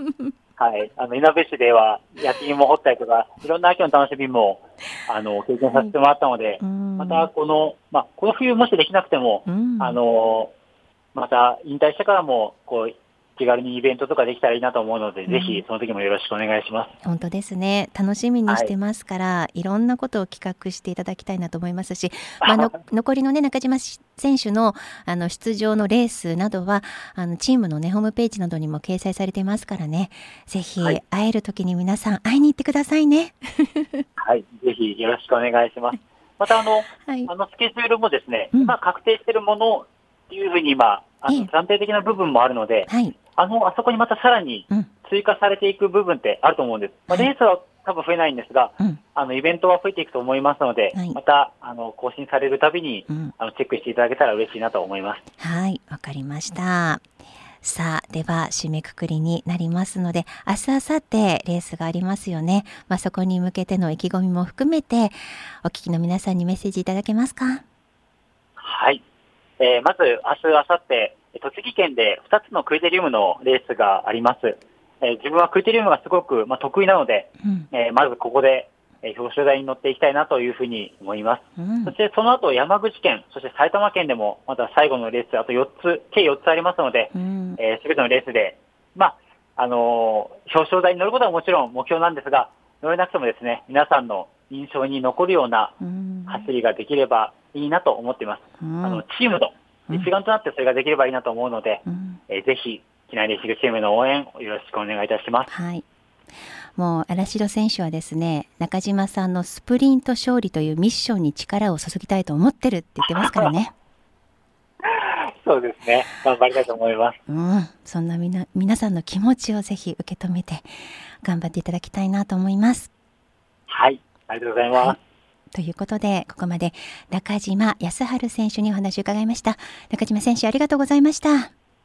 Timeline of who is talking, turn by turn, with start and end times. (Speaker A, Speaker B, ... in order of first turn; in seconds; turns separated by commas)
Speaker A: 0.6-10.5, Speaker B: 6.6-7.3, Speaker B: 9.5-10.0, Speaker A: 11.1-16.9, Speaker B: 15.3-15.6, Speaker B: 17.0-34.0, Speaker A: 18.5-18.7, Speaker A: 22.4-22.7, Speaker A: 34.2-55.2, Speaker B: 37.0-37.3, Speaker B: 42.9-43.1, Speaker B: 55.4-57.0, Speaker B: 57.6-67.6, Speaker A: 68.6-69.0, Speaker A: 69.6-95.8, Speaker B: 81.6-81.9, Speaker B: 87.1-87.6, Speaker B: 95.8-96.5, Speaker A: 96.3-105.5, Speaker B: 98.6-99.0, Speaker B: 101.8-102.2, Speaker B: 105.5-105.8, Speaker B: 106.8-113.7, Speaker A: 114.8-117.2, Speaker B: 117.3-120.7, Speaker B: 121.2-122.9, Speaker A: 123.7-125.0, Speaker B: 125.5-131.5